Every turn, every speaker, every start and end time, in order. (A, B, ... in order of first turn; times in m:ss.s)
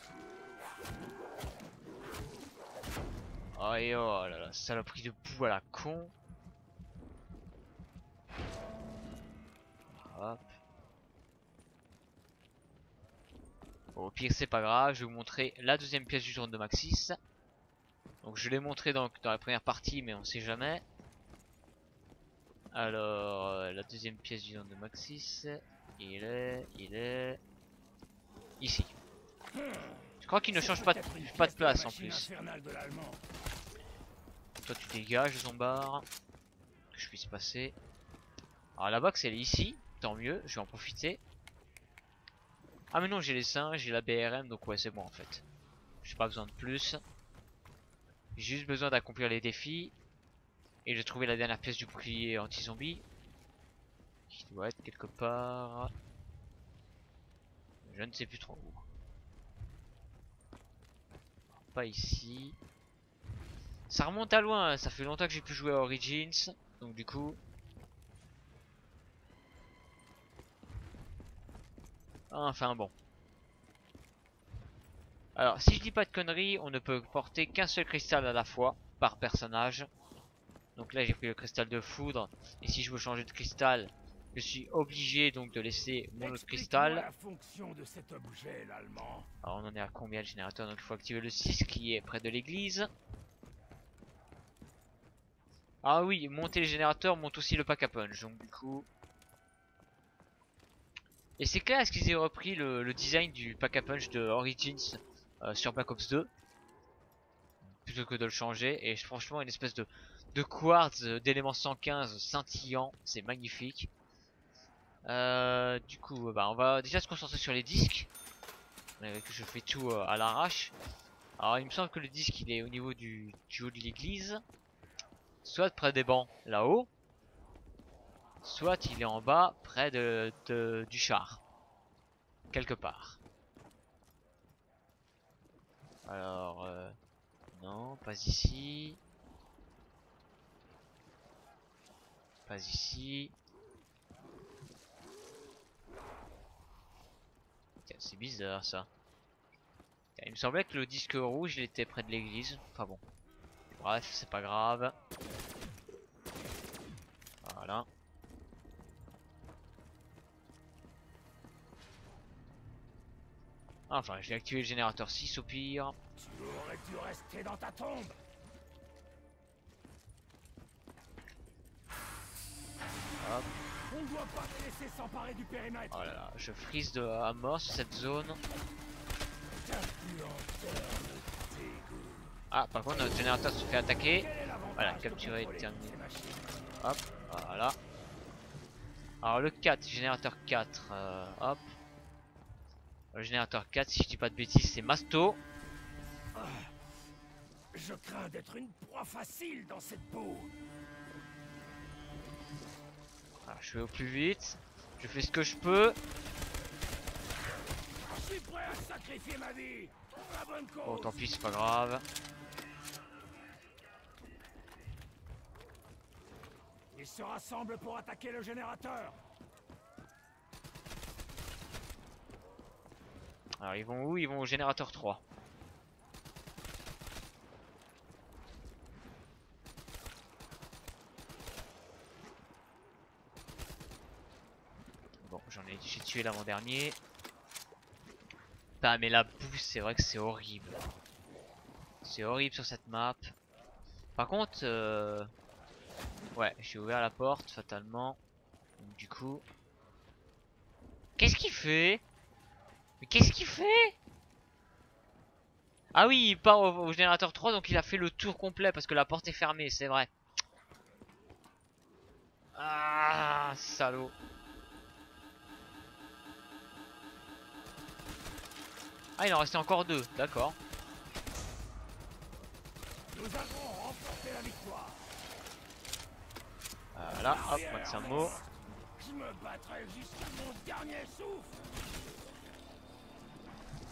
0:03.5-0:06.1 A
0:09.9-0:10.5 A
0:13.9-0:17.2 A
0:18.2-0:20.8 A
0:22.7-0:27.4 A
0:28.6-0:28.9 A
0:29.5-0:33.2 B
0:30.2-0:32.3 A
0:34.6-0:36.0 A
0:36.9-0:37.8 A
0:38.8-0:41.2 A
0:42.9-0:45.4 A
0:46.0-0:47.0 A
0:48.4-0:49.9 A
0:50.8-0:53.0 A
0:54.3-0:55.9 A
0:57.8-0:58.8 A
1:01.6-1:02.6 A
1:03.9-1:07.4 A
1:12.3-1:12.9 A
1:15.4-1:19.9 A
1:20.8-1:27.1 A
1:26.2-1:29.3 B
1:29.4-1:32.9 A
1:35.8-1:38.9 A
1:41.4-1:46.3 A
1:47.8-1:53.9 A
1:55.0-1:58.1 A
1:59.0-2:00.7 A
2:01.4-2:04.4 A
2:05.4-2:06.9 A
2:08.4-2:11.4 A
2:12.5-2:13.2 A
2:16.0-2:16.9 A
2:17.5-2:19.0 A
2:22.5-2:23.3 A
2:27.9-2:28.9 A
2:30.2-2:33.0 A
2:33.8-2:34.9 A
2:37.4-2:37.9 A
2:43.9-2:46.0 A
2:46.2-2:48.2 B
2:53.2-2:53.5 A
2:53.8-2:56.0 B
2:55.9-2:58.4 A
2:59.5-3:02.3 B
3:02.5-3:06.0 A
3:04.1-3:06.6 B
3:06.8-3:07.8 A
3:09.2-3:11.6 A
3:13.1-3:15.4 A
3:16.3-3:16.7 B
3:17.7-3:20.5 B
3:23.4-3:26.0 A
3:28.0-3:31.3 B
3:30.8-3:32.0 A
3:36.9-3:39.2 B
3:43.6-3:45.2 A
3:55.2-3:57.0 A
3:58.8-4:00.9 A
4:02.0-4:03.3 A
4:04.2-4:05.3 A
4:06.3-4:08.2 A
4:08.8-4:09.4 A
4:11.2-4:12.0 A
4:13.0-4:14.0 A
4:15.9-4:20.1 A
4:22.6-4:24.1 A
4:29.2-4:30.6 A
4:33.1-4:35.1 B
4:36.9-4:38.4 A
4:37.1-4:41.6 B